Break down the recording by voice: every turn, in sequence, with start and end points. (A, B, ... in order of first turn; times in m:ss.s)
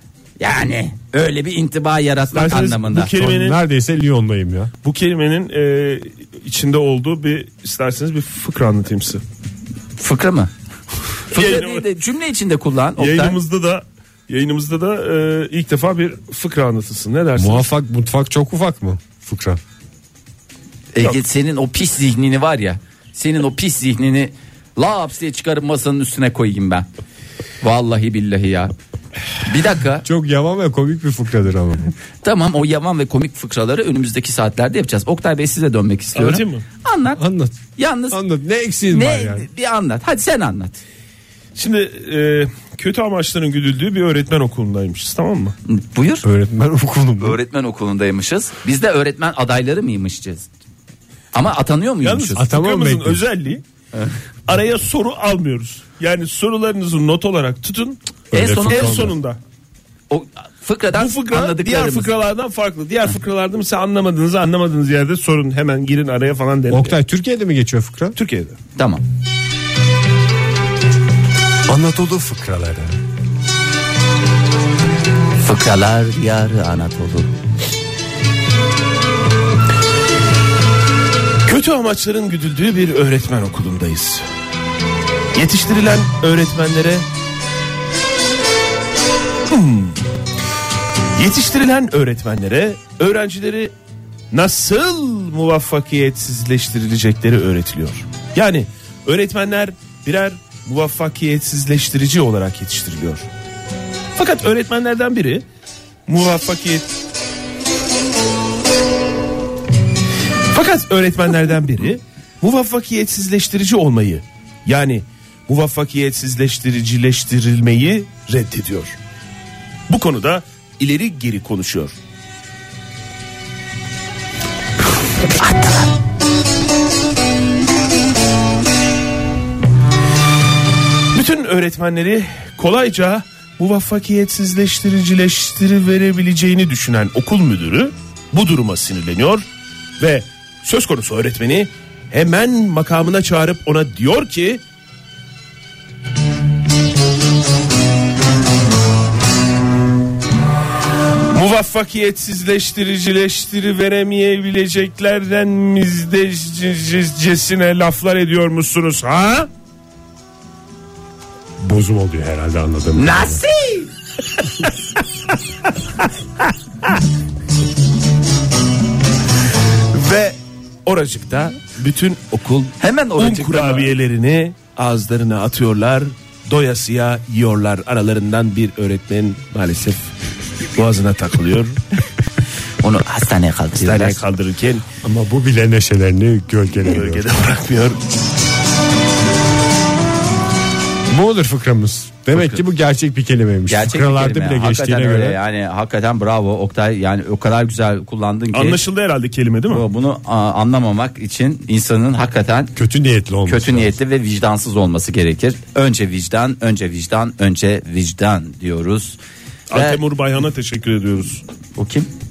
0:00.4-0:03.2 A
0:02.3-0:03.6 B
0:03.1-0:04.7 C
0:04.8-0:09.2 B
0:10.0-0:10.5 A
0:11.3-0:13.4 A
0:11.3-0:11.8 B
0:13.0-0:17.7 B
0:17.4-0:19.6 C
0:20.9-0:26.9 A
0:27.6-0:28.7 A
0:29.4-0:30.0 A
0:30.0-0:31.9 C
0:32.2-0:37.2 A
0:36.2-0:36.6 B
0:37.2-0:39.5 C
0:37.8-0:38.2 A
0:38.9-0:40.8 A
0:41.6-0:45.5 B
0:45.7-0:46.2 A
0:46.2-0:47.4 C
0:47.2-0:50.5 A
0:51.3-0:52.4 A
0:52.0-0:53.6 B
0:52.4-0:53.2 C
0:54.5-0:59.4 B
0:58.3-0:59.1 A
0:58.3-0:59.1 C
1:00.1-1:02.1 A
1:00.9-1:06.9 B
1:06.7-1:08.2 C
1:08.2-1:08.6 B
1:08.8-1:09.0 A
1:11.7-1:12.9 C
1:15.4-1:17.3 A
1:21.4-1:24.2 B
1:25.3-1:27.0 B
1:29.5-1:30.0 B
1:31.1-1:33.7 B
1:34.3-1:43.3 B
1:44.2-1:45.4 B
1:46.1-1:47.0 B
1:50.5-1:59.0 B
1:59.9-2:02.0 B
2:05.4-2:05.9 A
2:11.1-2:19.4 B
2:20.0-2:24.6 B
2:31.3-2:39.5 B
2:41.6-2:43.4 C
2:43.0-2:43.9 A
2:49.9-3:00.1 B
2:52.8-2:53.9 A
3:00.7-3:01.8 B
3:02.8-3:04.2 A
3:03.8-3:04.8 B
3:05.0-3:07.3 C
3:06.8-3:08.0 B
3:11.1-3:15.4 C
3:12.3-3:12.6 A
3:13.7-3:18.8 A
3:18.5-3:19.8 B
3:19.7-3:22.7 A
3:22.8-3:23.9 C
3:23.5-3:29.2 A
3:29.7-3:31.4 B
3:29.7-3:30.0 A
3:31.8-3:32.1 A